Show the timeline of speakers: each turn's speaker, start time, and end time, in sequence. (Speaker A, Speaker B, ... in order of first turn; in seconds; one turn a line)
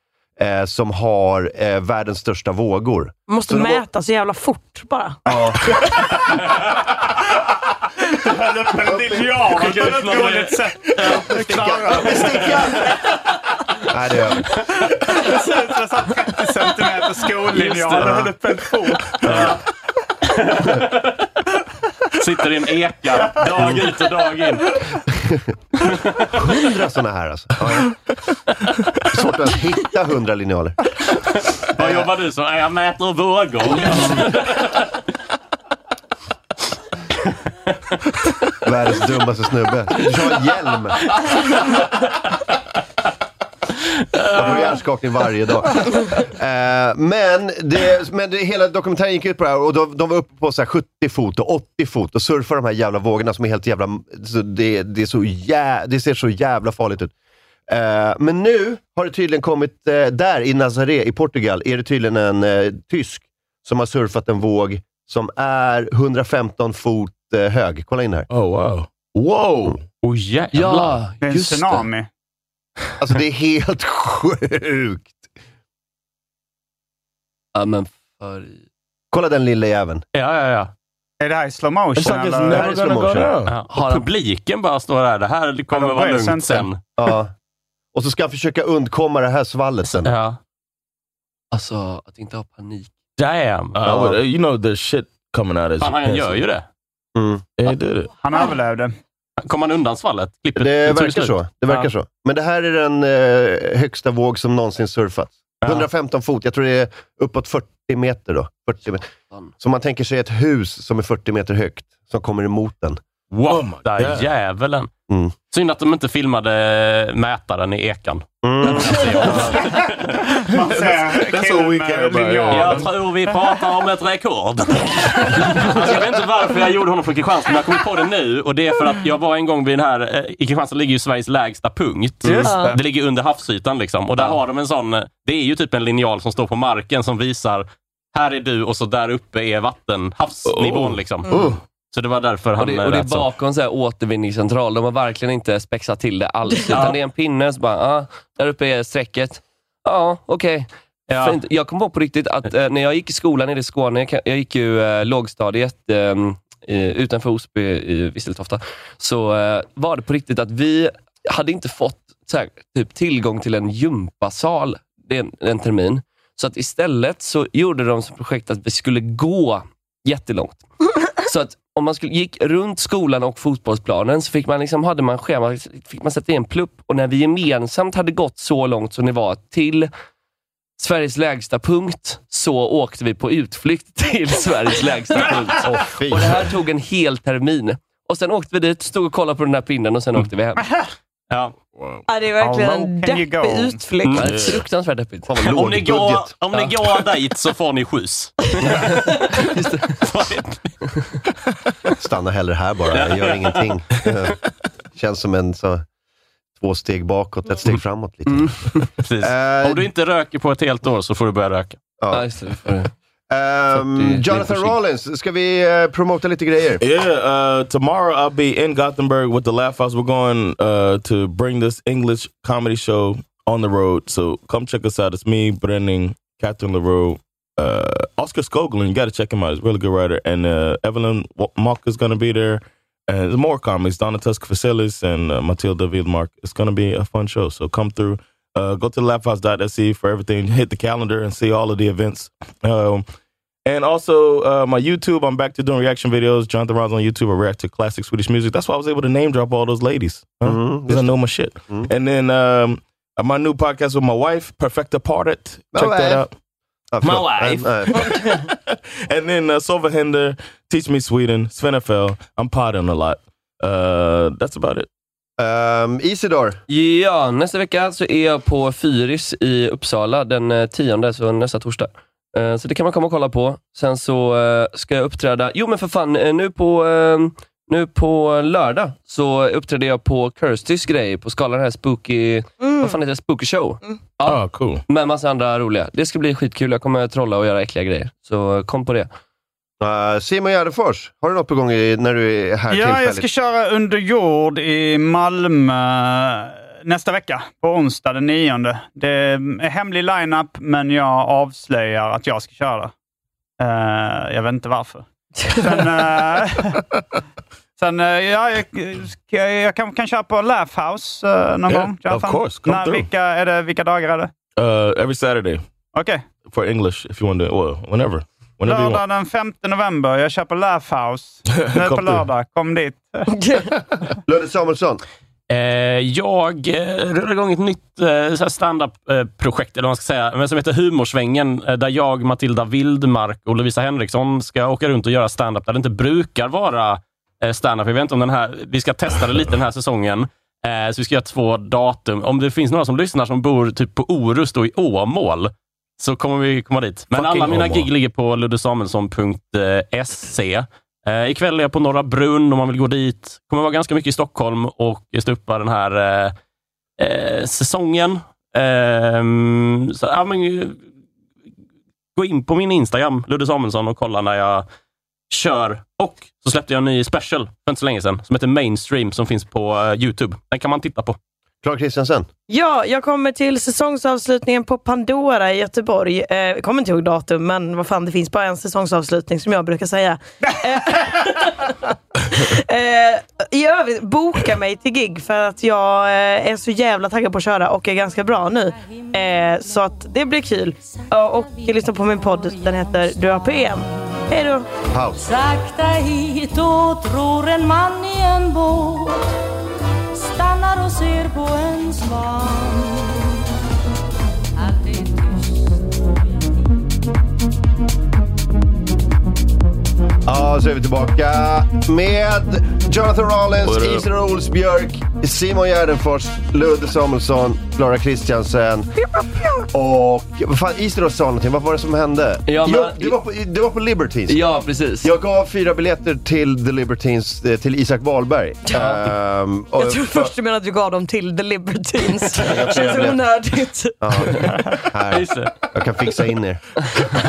Speaker A: 0.4-3.8
Speaker B: 3.3-5.2
Speaker A: 5.3-5.8
Speaker C: 6.3-6.6
Speaker D: 8.1-12.7
Speaker C: 9.5-11.3
Speaker A: 11.3-12.9
Speaker C: 12.1-12.4
Speaker A: 13.9-14.5
Speaker D: 15.1-19.5
Speaker C: 17.5-18.3
Speaker A: 19.2-19.6
Speaker C: 19.3-19.6
Speaker C: 20.3-21.2
Speaker C: 22.2-24.8
Speaker A: 25.1-25.5
Speaker C: 25.8-26.3
Speaker A: 26.3-28.0
Speaker A: 29.1-30.8
Speaker C: 31.4-34.9
Speaker A: 31.8-32.1
Speaker A: 38.6-41.2
Speaker C: 44.2-44.5
Speaker A: 44.3-57.1
Speaker A: 57.7-68.3
Speaker E: 68.3-69.8
Speaker C: 70.0-71.0
Speaker F: 70.5-71.8
Speaker D: 71.2-72.1
Speaker A: 73.0-75.3
Speaker F: 77.5-78.6
Speaker A: 79.1-80.0
Speaker C: 80.1-80.7
Speaker D: 81.2-82.7
Speaker E: 82.0-83.6
Speaker A: 82.5-83.3
Speaker C: 83.5-86.8
Speaker F: 83.7-84.1
Speaker D: 85.7-86.7
Speaker A: 87.0-87.3
Speaker A: 87.9-90.1
Speaker C: 89.9-90.4
Speaker F: 91.5-92.9
Speaker C: 93.2-93.8
Speaker E: 93.8-96.4
Speaker A: 93.9-94.2
Speaker C: 95.8-96.7
Speaker A: 97.2-97.5
Speaker E: 97.6-98.1
Speaker D: 98.2-98.9
Speaker C: 99.4-101.8
Speaker A: 100.6-109.1
Speaker A: 109.6-113.0
Speaker C: 113.3-114.9
Speaker E: 113.5-114.3
Speaker C: 115.5-120.2
Speaker A: 118.4-119.2
Speaker D: 120.4-122.9
Speaker E: 120.6-122.9
Speaker C: 122.5-141.3
Speaker D: 132.2-132.8
Speaker B: 132.4-132.8
Speaker E: 140.5-141.6
Speaker C: 141.9-143.3
Speaker F: 142.6-170.6
Speaker C: 146.7-147.0
Speaker C: 151.1-151.4
Speaker F: 171.2-179.9
Speaker F: 180.8-190.7
Speaker A: 185.6-186.5
Speaker C: 191.3-191.6
Speaker B: 192.1-194.3
Speaker D: 192.4-193.8
Speaker F: 194.1-195.3
Speaker E: 194.2-194.6
Speaker A: 195.3-196.4
Speaker C: 195.4-199.3
Speaker F: 198.6-200.1
Speaker C: 200.0-200.7
Speaker A: 202.0-204.4
Speaker C: 202.9-203.6
Speaker A: 204.9-205.8
Speaker A: 206.6-208.6
Speaker F: 208.3-208.9
Speaker C: 209.0-211.8
Speaker A: 209.2-209.9
Speaker A: 212.0-212.3
Speaker F: 212.1-212.9
Speaker A: 213.3-216.8
Speaker F: 213.7-214.8
Speaker E: 216.8-243.1
Speaker E: 243.7-256.3
Speaker A: 250.4-251.2
Speaker A: 255.7-256.2
Speaker A: 256.9-258.1
Speaker E: 257.0-264.9
Speaker A: 265.4-266.6
Speaker F: 266.7-289.1
Speaker B: 282.6-283.0
Speaker E: 284.3-284.8
Speaker A: 289.8-293.3
Speaker D: 292.7-302.9
Speaker D: 303.6-306.8
Speaker D: 307.8-314.3
Speaker E: 311.7-313.1
Speaker E: 314.6-315.6
Speaker D: 315.9-316.3
Speaker E: 316.4-319.0
Speaker D: 318.7-323.4
Speaker E: 321.5-322.2
Speaker B: 323.3-323.7
Speaker A: 324.3-325.0
Speaker C: 325.5-356.4
Speaker E: 347.1-347.9
Speaker C: 357.0-360.8
Speaker C: 362.2-364.7
Speaker C: 365.3-371.2
Speaker A: 371.6-372.3
Speaker B: 372.5-394.7
Speaker G: 391.4-393.4
Speaker A: 394.9-395.3
Speaker G: 395.2-399.4
Speaker G: 400.1-403.2
Speaker G: 404.6-406.1
Speaker A: 410.3-418.9
Speaker E: 413.6-414.0
Speaker A: 419.7-424.4
Speaker F: 422.5-423.2
Speaker F: 424.3-425.1
Speaker A: 425.0-430.3
Speaker F: 428.7-429.0
Speaker B: 429.8-434.2
Speaker A: 432.4-433.2
Speaker A: 434.0-436.7
Speaker C: 435.1-435.5